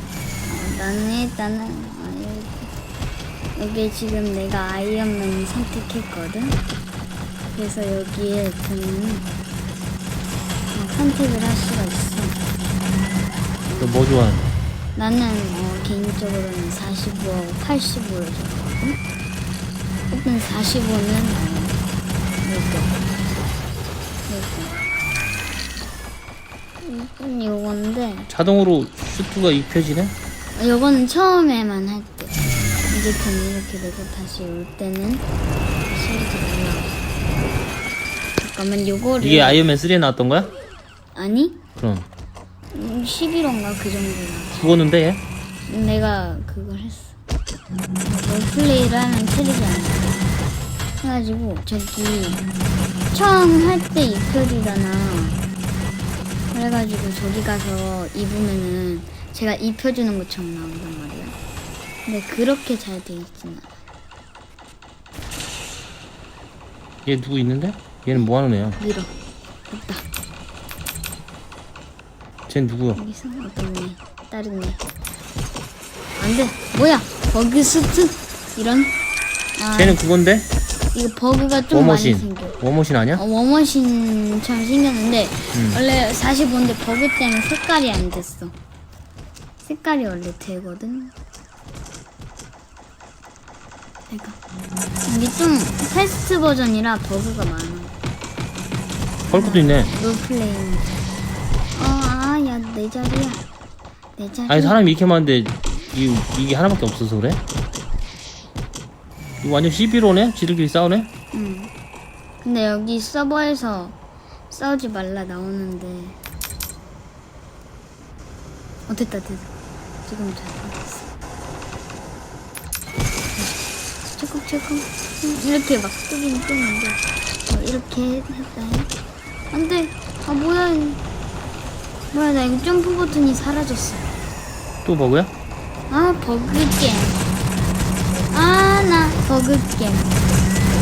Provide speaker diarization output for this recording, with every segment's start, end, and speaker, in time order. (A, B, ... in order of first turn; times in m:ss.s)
0:00.4-0:02.7 A
0:03.6-0:06.6 A
0:07.5-0:09.3 A
0:10.7-0:12.4 A
0:13.7-0:14.0 A
0:13.8-0:14.5 B
0:15.0-0:19.0 A
0:20.1-0:21.8 A
0:22.4-0:23.0 A
0:24.3-0:24.8 A
0:26.8-0:28.3 A
0:28.3-0:30.2 B
0:30.6-0:32.4 A
0:32.9-0:35.3 A
0:35.9-0:37.0 A
0:38.4-0:39.6 A
0:39.2-0:40.5 B
0:41.2-0:41.6 A
0:41.8-0:42.1 B
0:42.7-0:44.6 A
0:44.6-0:45.2 B
0:45.7-0:47.2 A
0:48.1-0:50.3 A
0:51.0-0:52.4 A
0:53.1-0:55.4 A
0:56.5-1:01.4 A
1:02.1-1:03.7 A
1:07.0-1:08.8 B
1:08.8-1:09.1 A
1:09.7-1:10.0 A
1:12.5-1:13.0 B
1:13.0-1:14.8 A
1:16.2-1:19.0 A
1:19.6-1:20.0 A
1:19.8-1:20.5 B
1:20.9-1:22.6 A
1:21.7-1:23.2 B
1:23.2-1:28.5 A
1:25.5-1:25.8 B
1:29.6-1:31.1 A
1:34.1-1:34.4 A
1:35.0-1:38.0 A
1:39.3-1:39.9 B
1:39.3-1:40.9 A
1:41.8-1:43.4 A
1:44.2-1:44.8 A
1:44.5-1:47.4 B
1:49.4-1:51.1 B
1:51.3-1:51.7 A
1:52.4-1:54.0 A
1:54.5-1:56.2 A
1:58.9-1:59.5 A
2:00.0-2:01.1 A
2:04.1-2:08.9 A
2:09.5-2:11.0 A
2:12.1-2:14.1 A
2:14.8-2:15.3 B
2:15.9-2:17.2 A
2:18.3-2:20.2 A